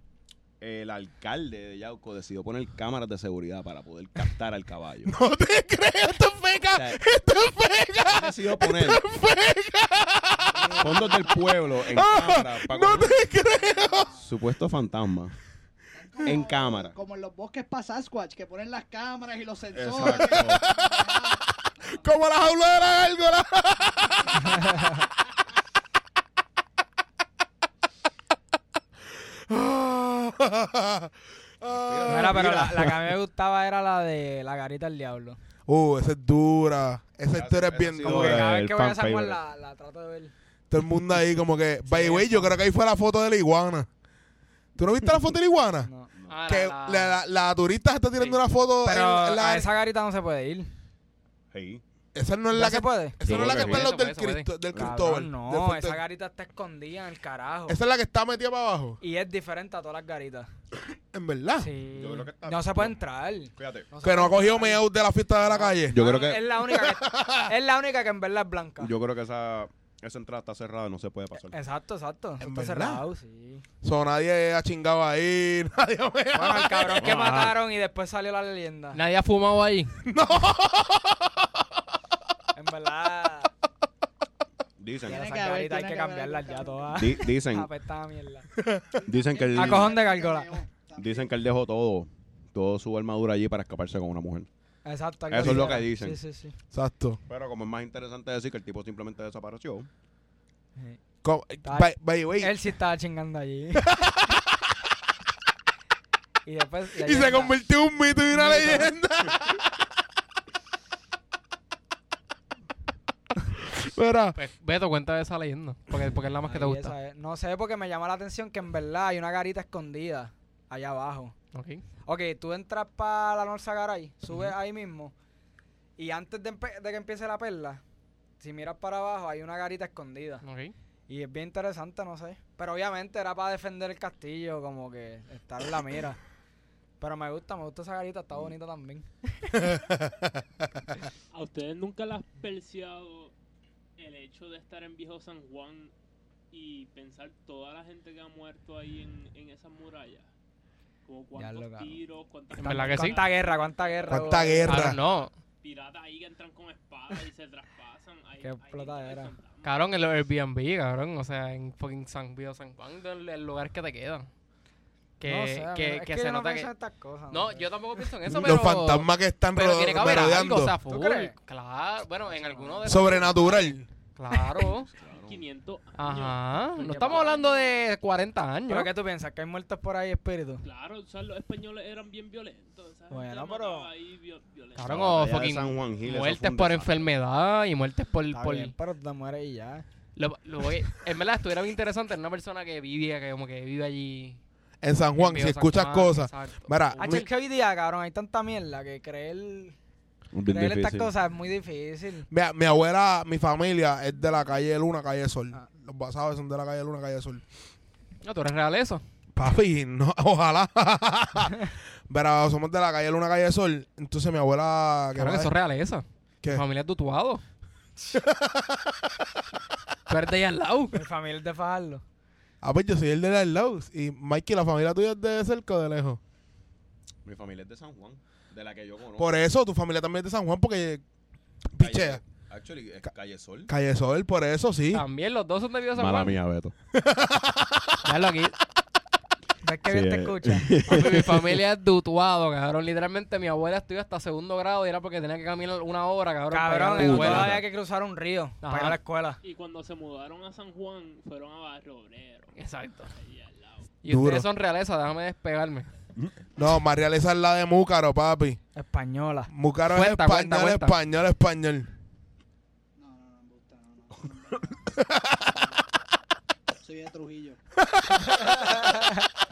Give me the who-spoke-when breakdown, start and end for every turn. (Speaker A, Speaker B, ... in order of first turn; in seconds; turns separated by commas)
Speaker A: 0.6-5.1, Speaker B: 5.0-11.0, Speaker A: 8.1-9.0, Speaker C: 10.5-11.6, Speaker A: 10.8-13.2, Speaker B: 11.8-14.2, Speaker A: 14.1-15.3, Speaker C: 15.9-22.0, Speaker A: 16.2-16.9, Speaker A: 19.7-20.7, Speaker B: 20.3-21.0, Speaker B: 21.9-24.7, Speaker D: 24.5-25.0, Speaker B: 29.5-32.7, Speaker A: 31.7-33.0, Speaker D: 32.1-35.4, Speaker B: 35.7-38.5, Speaker A: 37.3-39.4, Speaker D: 38.0-40.3, Speaker B: 40.7-43.9, Speaker D: 41.9-42.6, Speaker B: 44.8-45.9, Speaker D: 45.8-46.1, Speaker E: 46.3-47.2, Speaker B: 46.5-49.7, Speaker D: 48.8-50.7, Speaker A: 51.5-51.8, Speaker B: 52.1-56.0, Speaker D: 52.5-53.2, Speaker A: 53.2-53.8, Speaker E: 53.3-54.5, Speaker A: 54.7-55.0, Speaker D: 54.7-57.8, Speaker B: 57.7-59.0, Speaker D: 59.0-60.5, Speaker B: 61.1-61.7, Speaker D: 61.6-64.8, Speaker A: 61.9-62.9, Speaker A: 63.5-63.9, Speaker B: 64.0-67.5, Speaker D: 65.4-68.9, Speaker A: 65.9-66.4, Speaker A: 68.8-71.5, Speaker D: 71.3-73.6, Speaker B: 72.4-73.0, Speaker B: 73.8-77.5, Speaker D: 76.3-79.0, Speaker A: 77.0-77.6, Speaker E: 78.9-80.0, Speaker B: 80.0-81.6, Speaker D: 82.5-83.5, Speaker A: 84.8-85.2, Speaker C: 85.0-87.2, Speaker D: 85.1-88.5, Speaker A: 87.0-87.7, Speaker B: 88.5-88.9, Speaker C: 89.0-91.3, Speaker A: 89.0-89.9, Speaker D: 89.5-90.6, Speaker A: 91.0-94.5, Speaker D: 94.8-96.5, Speaker A: 95.3-96.2, Speaker B: 95.3-95.8, Speaker B: 96.7-97.2, Speaker A: 97.3-99.9, Speaker B: 101.2-102.5, Speaker D: 101.6-104.0, Speaker B: 103.8-104.6, Speaker D: 106.5-107.5, Speaker B: 107.0-109.8, Speaker D: 108.3-108.9, Speaker B: 113.6-114.4, Speaker E: 114.3-116.9, Speaker D: 116.5-121.3, Speaker E: 121.5-121.8, Speaker D: 122.0-125.1, Speaker D: 126.0-127.8, Speaker D: 128.4-130.4, Speaker E: 130.4-130.7, Speaker D: 131.1-136.2, Speaker D: 137.0-139.7, Speaker B: 139.6-140.3, Speaker F: 141.3-143.3, Speaker F: 144.0-145.9, Speaker F: 146.5-150.3, Speaker F: 151.1-159.7, Speaker D: 151.3-152.0, Speaker E: 152.6-153.2, Speaker D: 152.6-154.9, Speaker B: 154.1-155.0, Speaker E: 154.6-155.3, Speaker D: 158.4-159.3, Speaker E: 159.6-164.3, Speaker E: 165.2-166.7, Speaker D: 165.2-168.1, Speaker E: 167.3-174.9, Speaker B: 168.2-170.7, Speaker D: 170.9-171.3, Speaker D: 172.3-173.3, Speaker B: 172.8-173.9, Speaker A: 174.8-175.4, Speaker F: 175.1-177.7, Speaker E: 176.0-178.9, Speaker D: 176.8-177.6, Speaker D: 178.7-180.6, Speaker F: 180.6-184.9, Speaker D: 183.1-183.9, Speaker E: 184.8-188.7, Speaker A: 184.8-187.1, Speaker D: 188.3-189.8, Speaker E: 190.2-194.4, Speaker B: 194.8-197.2, Speaker E: 195.2-197.3, Speaker D: 197.0-199.8, Speaker A: 200.3-201.1, Speaker D: 200.4-202.3, Speaker B: 202.3-207.4, Speaker E: 208.2-209.0, Speaker B: 209.3-215.5, Speaker E: 215.1-217.4, Speaker B: 218.1-219.1, Speaker E: 220.1-221.0, Speaker D: 220.9-222.0, Speaker B: 222.6-226.2, Speaker A: 227.2-229.4, Speaker B: 229.2-231.0, Speaker B: 231.7-232.2, Speaker A: 231.8-233.7, Speaker B: 233.7-235.0, Speaker E: 234.9-236.4, Speaker A: 235.9-236.7, Speaker B: 236.9-238.0, Speaker E: 238.0-238.6, Speaker D: 239.6-240.9, Speaker A: 239.8-241.6, Speaker E: 240.8-247.6, Speaker D: 246.5-249.4, Speaker A: 246.9-247.6, Speaker E: 248.6-249.0, Speaker F: 249.4-252.6, Speaker E: 252.6-253.1, Speaker F: 253.1-254.0, Speaker E: 254.0-255.9, Speaker B: 254.1-254.5, Speaker B: 256.6-258.6, Speaker D: 258.7-259.5, Speaker B: 259.5-261.9, Speaker E: 259.9-261.0, Speaker C: 263.0-264.8, Speaker B: 264.9-265.6, Speaker C: 265.5-265.8, Speaker C: 266.8-267.6, Speaker B: 267.9-268.4, Speaker D: 268.4-269.3